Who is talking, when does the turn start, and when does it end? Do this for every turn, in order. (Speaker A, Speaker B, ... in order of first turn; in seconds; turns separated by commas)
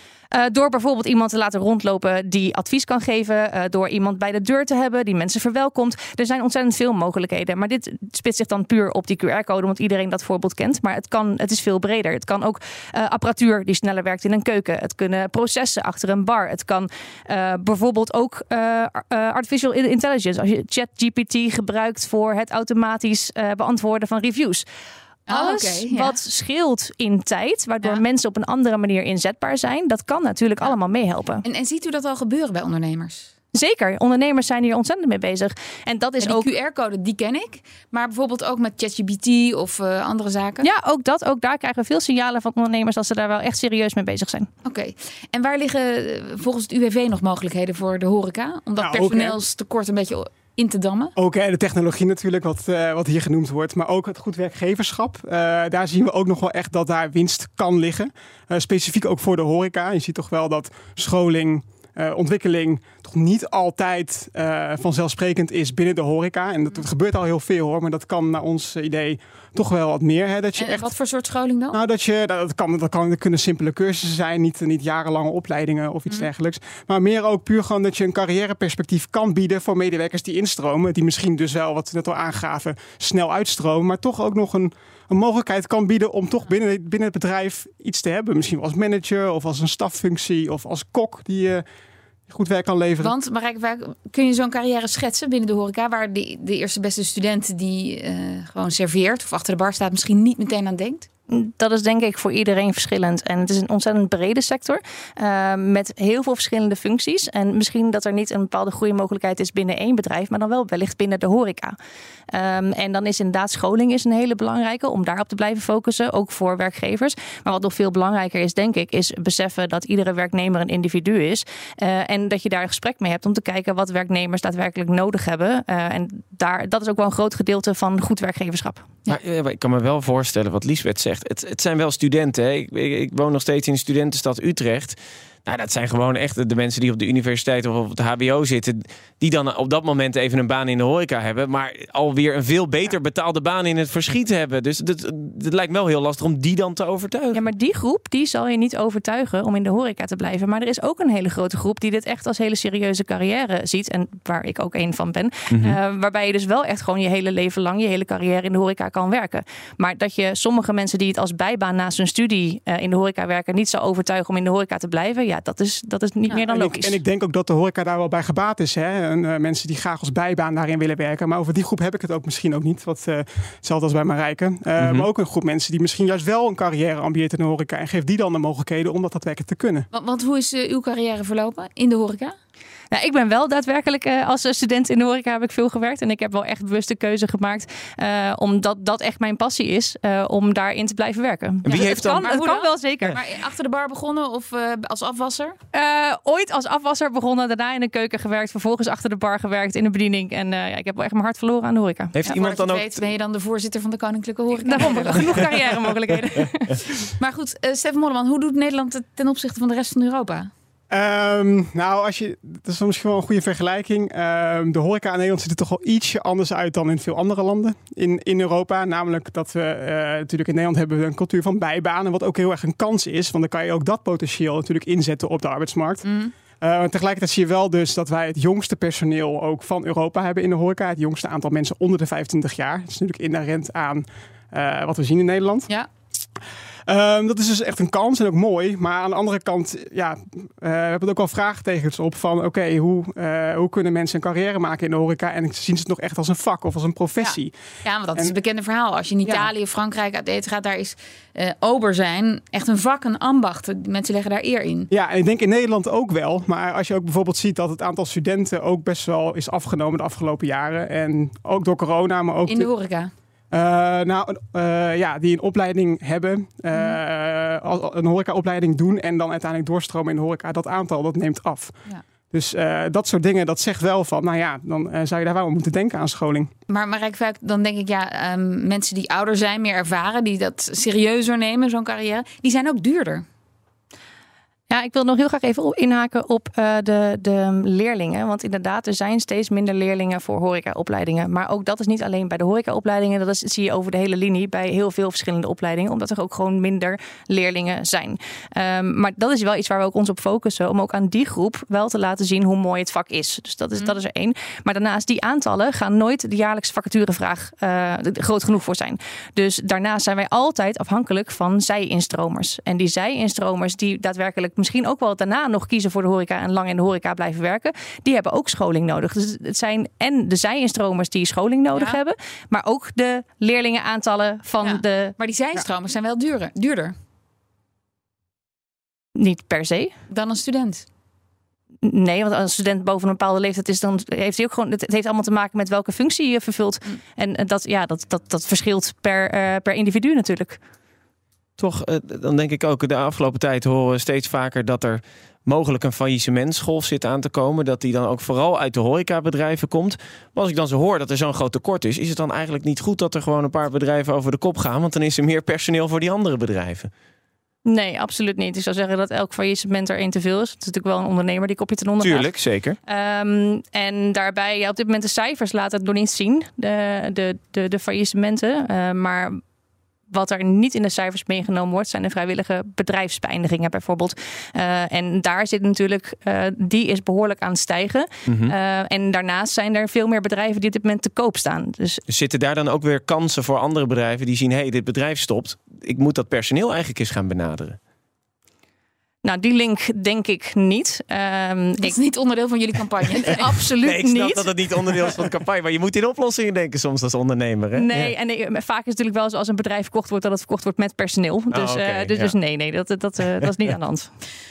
Speaker A: 0.3-24.6, Speaker B: 25.3-26.1, Speaker A: 25.3-31.4, Speaker B: 31.4-33.3, Speaker A: 33.5-36.5, Speaker B: 36.2-40.7, Speaker A: 40.6-44.5, Speaker B: 44.6-51.1, Speaker C: 48.8-49.4, Speaker C: 51.1-70.9, Speaker B: 70.6-71.8, Speaker C: 71.7-91.6, Speaker C: 92.3-93.1, Speaker B: 93.0-101.0, Speaker A: 101.3-111.8, Speaker A: 112.3-128.9, Speaker D: 129.1-147.4, Speaker A: 147.3-167.0, Speaker D: 155.5-155.8, Speaker C: 166.4-179.9, Speaker D: 174.8-175.1, Speaker B: 179.9-182.3, Speaker A: 182.9-193.2, Speaker D: 191.6-192.3, Speaker B: 191.7-195.6, Speaker A: 195.7-202.2, Speaker D: 202.1-203.0, Speaker B: 202.2-205.5, Speaker A: 204.6-206.8, Speaker B: 207.1-210.5, Speaker C: 210.9-226.1, Speaker B: 226.0-226.3, Speaker C: 226.6-235.7, Speaker C: 236.9-247.5, Speaker B: 247.2-254.9, Speaker C: 254.9-262.7, Speaker B: 262.5-263.1, Speaker C: 263.5-271.7, Speaker B: 266.7-267.0, Speaker C: 272.3-276.5, Speaker B: 276.7-283.2, Speaker A: 284.7-325.1, Speaker B: 321.7-322.0, Speaker B: 324.6-326.9, Speaker A: 329.1-329.9, Speaker B: 330.1-330.9, Speaker A: 331.8-340.6, Speaker D: 341.6-356.9, Speaker A: 357.6-369.4, Speaker D: 362.0-362.8, Speaker A: 370.1-382.0, Speaker D: 378.3-378.5, Speaker D: 382.1-387.8, Speaker A: 389.2-392.0, Speaker B: 391.8-393.6, Speaker A: 393.1-395.1, Speaker D: 393.8-398.1, Speaker A: 397.7-404.1, Speaker D: 401.5-402.4